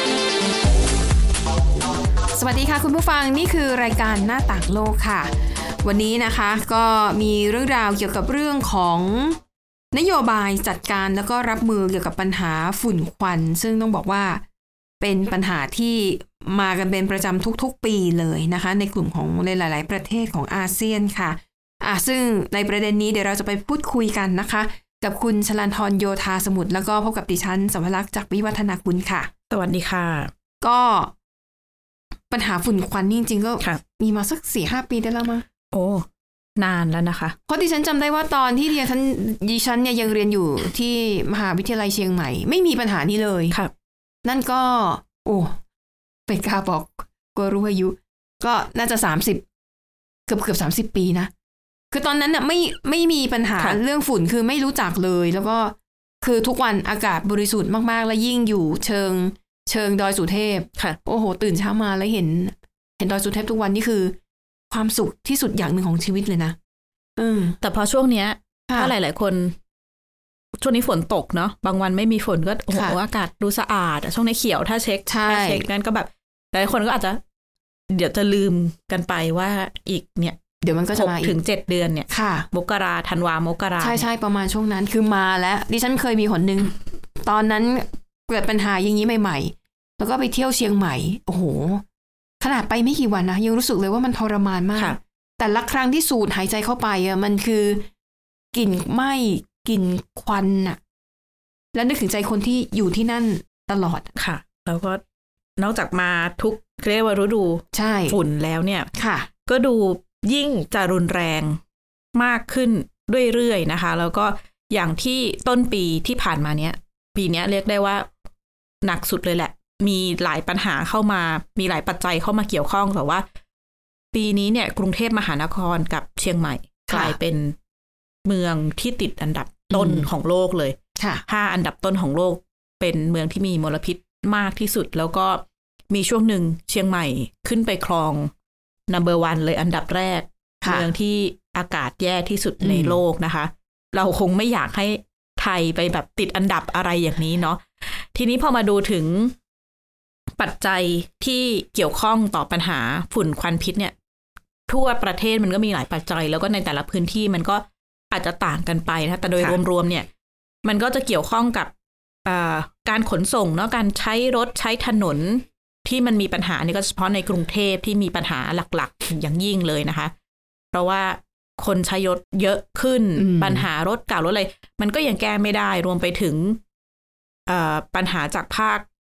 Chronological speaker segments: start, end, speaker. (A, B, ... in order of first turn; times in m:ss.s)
0:02.3-0:09.4 A
0:09.9-0:14.4 A
0:15.0-0:29.3 A
0:29.5-0:30.3 B
0:30.6-0:31.1 A
0:32.3-0:35.4 A
0:35.7-0:36.1 B
0:36.6-0:37.4 B
0:37.5-0:43.6 A
0:44.2-0:45.6 A
0:46.3-0:49.4 A
0:50.3-0:51.3 A
0:51.9-1:04.2 A
1:04.7-1:06.6 A
1:07.2-1:07.6 A
1:07.6-1:09.6 B
1:10.6-1:17.2 B
1:15.1-1:15.6 A
1:17.9-1:20.4 B
1:20.6-1:21.4 A
1:20.9-1:24.0 B
1:22.1-1:22.5 A
1:23.8-1:31.8 A
1:32.4-1:37.9 A
1:38.5-1:40.8 A
1:41.7-1:44.1 A
1:44.2-1:45.0 B
1:45.6-1:48.9 B
1:47.7-1:48.2 A
1:49.0-1:49.3 A
1:49.4-1:51.6 B
1:52.2-1:58.1 B
1:58.8-2:03.2 B
2:04.1-2:07.6 B
2:06.9-2:07.2 A
2:08.2-2:18.3 B
2:09.7-2:10.1 A
2:11.0-2:11.2 A
2:18.9-2:29.3 B
2:22.6-2:23.0 A
2:30.4-2:33.9 B
2:34.7-2:40.1 B
2:40.6-2:41.7 B
2:42.3-2:50.1 B
2:50.7-2:56.6 B
2:53.2-2:53.6 A
2:57.5-2:58.8 B